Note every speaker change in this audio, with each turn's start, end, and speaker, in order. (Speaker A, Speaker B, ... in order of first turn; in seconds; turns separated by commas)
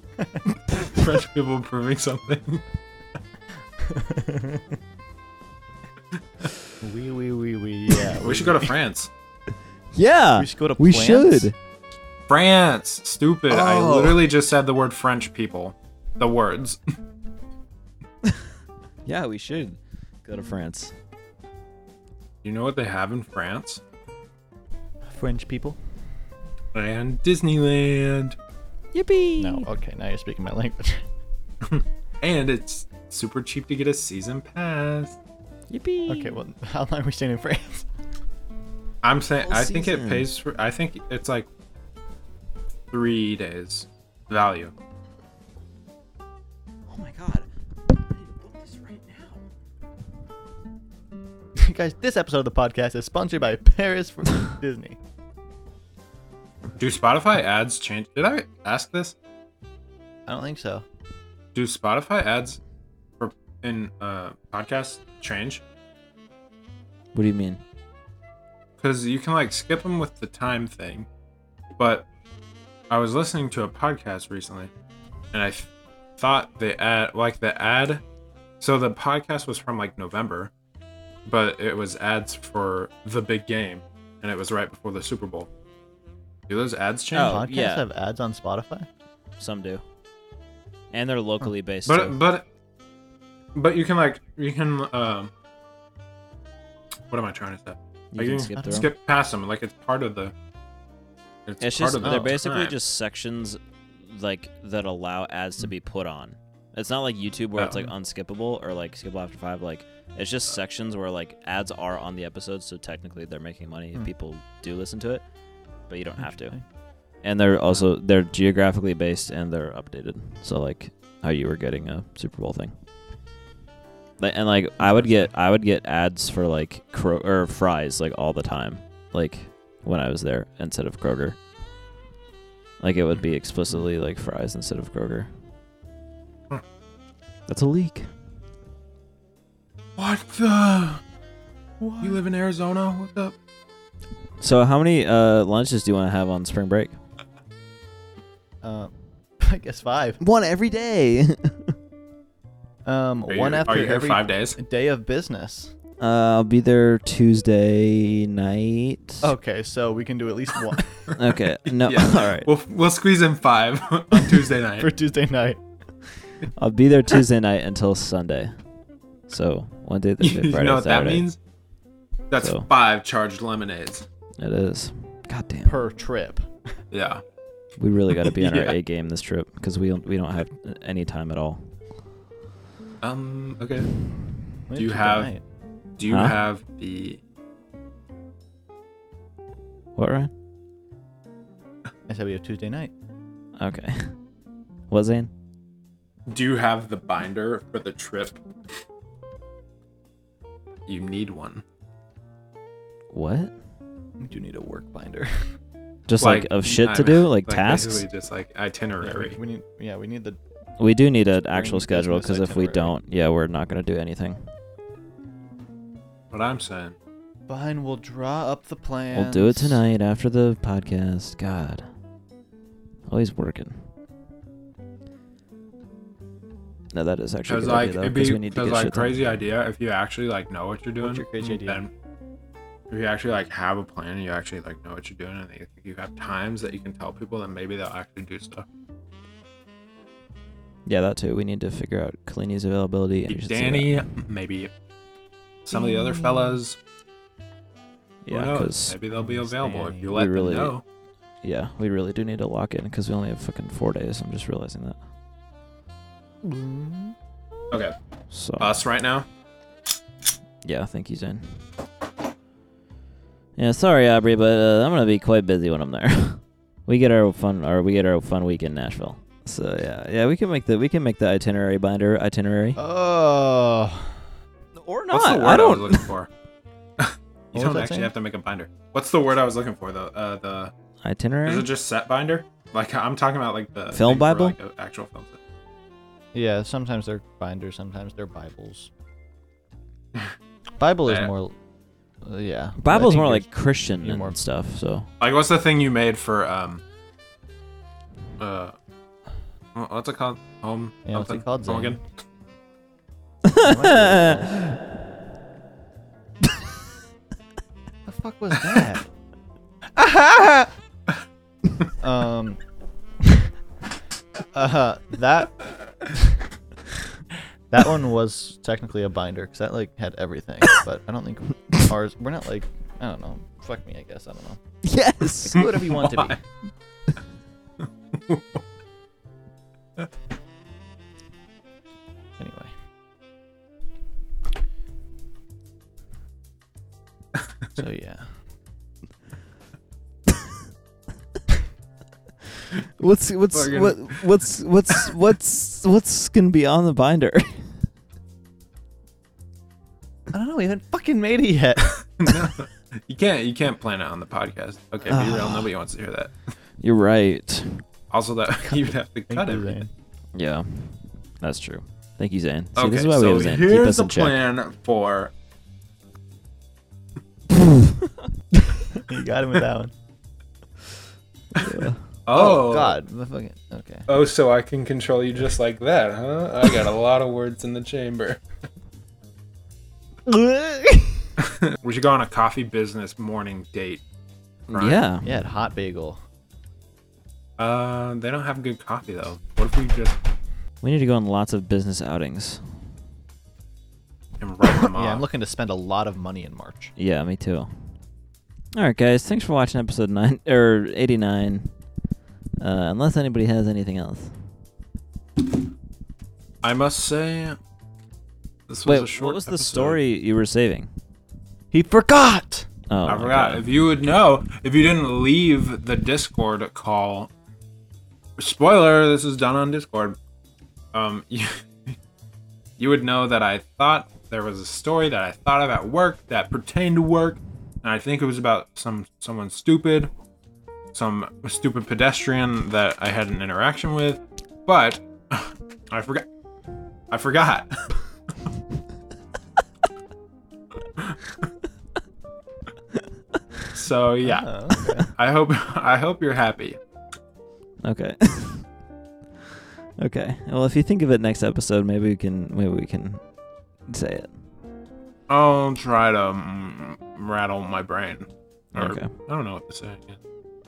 Speaker A: 0.2-0.4, Speaker B: 0.7-2.6, Speaker A: 3.8-4.7, Speaker A: 6.8-8.7, Speaker B: 8.2-9.1, Speaker C: 9.9-11.5, Speaker A: 10.3-11.5, Speaker B: 12.3-16.8, Speaker A: 13.5-14.2, Speaker C: 19.1-20.9, Speaker B: 22.4-23.8, Speaker A: 25.1-25.8, Speaker B: 26.7-28.4, Speaker C: 28.9-29.7, Speaker A: 29.4-31.0, Speaker B: 31.6-35.2, Speaker C: 35.7-36.4, Speaker A: 36.1-37.9, Speaker B: 39.0-41.5, Speaker C: 39.4-40.3, Speaker B: 42.9-44.7, Speaker C: 46.9-49.5, Speaker A: 51.6-55.0, Speaker B: 56.8-59.1, Speaker A: 60.3-60.8, Speaker B: 61.5-62.6, Speaker B: 63.2-65.6, Speaker C: 67.1-67.6, Speaker B: 68.8-71.1, Speaker B: 71.8-72.0, Speaker B: 72.9-74.7, Speaker B: 75.3-78.0, Speaker B: 78.6-80.5, Speaker B: 81.2-85.5, Speaker B: 86.5-87.4, Speaker C: 87.1-87.8, Speaker A: 87.2-88.9, Speaker C: 89.4-89.8, Speaker C: 90.9-92.2, Speaker B: 91.8-92.4, Speaker B: 93.5-95.3, Speaker B: 97.1-100.3, Speaker C: 98.1-98.9, Speaker A: 98.6-98.9, Speaker B: 101.5-102.8, Speaker C: 101.6-115.2, Speaker B: 107.6-107.8, Speaker C: 115.9-116.5, Speaker A: 116.2-116.6, Speaker C: 117.2-122.7, Speaker C: 124.2-131.4, Speaker B: 124.8-125.3, Speaker C: 132.8-135.3, Speaker C: 137.5-138.1, Speaker B: 140.0-141.0, Speaker A: 141.8-142.2, Speaker B: 142.0-143.3, Speaker C: 144.4-147.0, Speaker A: 148.6-150.2, Speaker C: 150.2-151.7, Speaker A: 152.8-155.7, Speaker B: 153.3-154.6, Speaker C: 156.0-159.3, Speaker A: 159.2-161.1, Speaker C: 161.2-162.5, Speaker B: 161.7-164.9, Speaker A: 164.1-165.6, Speaker C: 166.6-168.6, Speaker C: 169.3-171.2, Speaker B: 170.2-171.4, Speaker B: 172.3-174.1, Speaker C: 172.4-172.7, Speaker C: 174.4-175.8, Speaker A: 175.6-176.5, Speaker B: 176.9-177.2, Speaker C: 177.8-181.7, Speaker B: 178.2-178.8, Speaker B: 183.0-183.9, Speaker A: 184.7-185.4, Speaker B: 184.7-185.3, Speaker B: 186.0-187.2, Speaker C: 186.0-186.4, Speaker C: 189.9-190.3, Speaker A: 192.1-192.9, Speaker C: 193.6-194.1, Speaker C: 194.9-195.3, Speaker B: 196.3-198.4, Speaker B: 200.9-201.6, Speaker C: 203.1-203.5, Speaker A: 204.2-205.4, Speaker C: 206.1-208.1, Speaker B: 206.2-209.4, Speaker A: 209.0-210.4, Speaker C: 210.8-214.4, Speaker A: 211.4-212.9, Speaker B: 216.3-216.9, Speaker A: 217.5-219.8, Speaker C: 219.1-221.9, Speaker C: 223.1-223.8, Speaker C: 226.9-229.4, Speaker B: 227.5-231.9, Speaker A: 231.0-231.8, Speaker B: 232.9-238.7, Speaker C: 240.8-244.0, Speaker B: 243.3-244.7, Speaker B: 245.6-246.8, Speaker A: 245.7-246.6, Speaker C: 248.2-249.0, Speaker B: 248.3-250.8, Speaker A: 249.1-250.2, Speaker C: 250.1-250.8, Speaker C: 251.4-255.0, Speaker A: 256.4-257.1, Speaker C: 258.3-258.8, Speaker B: 258.6-259.2, Speaker C: 260.6-261.7, Speaker C: 263.6-272.8, Speaker A: 272.8-274.2, Speaker C: 274.7-276.1, Speaker B: 275.1-276.3, Speaker B: 277.0-280.7, Speaker A: 277.5-278.1, Speaker C: 281.0-281.7, Speaker B: 281.4-285.4, Speaker C: 283.9-284.6, Speaker A: 286.3-288.9, Speaker A: 290.8-291.5, Speaker A: 292.2-294.4, Speaker C: 292.8-295.1, Speaker B: 295.2-296.8, Speaker B: 298.4-298.7, Speaker B: 299.7-302.0, Speaker A: 301.1-302.0, Speaker C: 303.4-304.8, Speaker A: 303.6-304.6, Speaker A: 308.1-309.1, Speaker A: 309.9-310.7, Speaker A: 312.0-312.6, Speaker A: 313.2-313.5, Speaker A: 314.5-316.4, Speaker A: 317.7-324.6, Speaker C: 324.8-325.7, Speaker A: 325.4-326.4, Speaker B: 326.0-326.3, Speaker B: 328.1-328.6, Speaker A: 332.4-332.7, Speaker A: 337.8-338.3, Speaker C: 343.0-347.8, Speaker B: 343.5-344.3, Speaker A: 350.3-352.3, Speaker B: 352.1-356.5, Speaker C: 355.1-355.6, Speaker C: 356.8-357.8, Speaker B: 358.1-359.8, Speaker A: 359.3-359.9, Speaker C: 360.3-364.4, Speaker B: 362.8-365.3, Speaker C: 367.5-368.1, Speaker A: 368.9-369.9, Speaker C: 371.6-372.0, Speaker B: 372.2-373.0, Speaker A: 372.3-374.1, Speaker B: 374.1-378.4, Speaker A: 380.2-381.3, Speaker B: 381.4-384.0, Speaker C: 384.7-385.3, Speaker B: 384.7-385.0, Speaker A: 385.2-386.2, Speaker B: 387.6-390.2, Speaker C: 390.8-392.6, Speaker B: 394.4-395.2, Speaker A: 394.6-396.9, Speaker C: 397.0-397.7, Speaker C: 398.7-401.7, Speaker C: 402.6-404.4, Speaker B: 406.6-407.6, Speaker B: 408.7-410.0, Speaker C: 408.8-410.9, Speaker A: 411.7-412.7, Speaker C: 412.9-413.6, Speaker B: 413.0-417.3, Speaker B: 418.4-420.2, Speaker B: 420.9-421.9, Speaker B: 422.8-430.1, Speaker B: 430.9-436.2, Speaker B: 437.1-437.9, Speaker B: 443.7-444.5, Speaker A: 444.2-445.1, Speaker B: 445.0-446.8, Speaker C: 447.8-448.7, Speaker C: 449.5-453.2, Speaker C: 453.9-454.3, Speaker B: 455.3-460.2, Speaker C: 458.7-459.1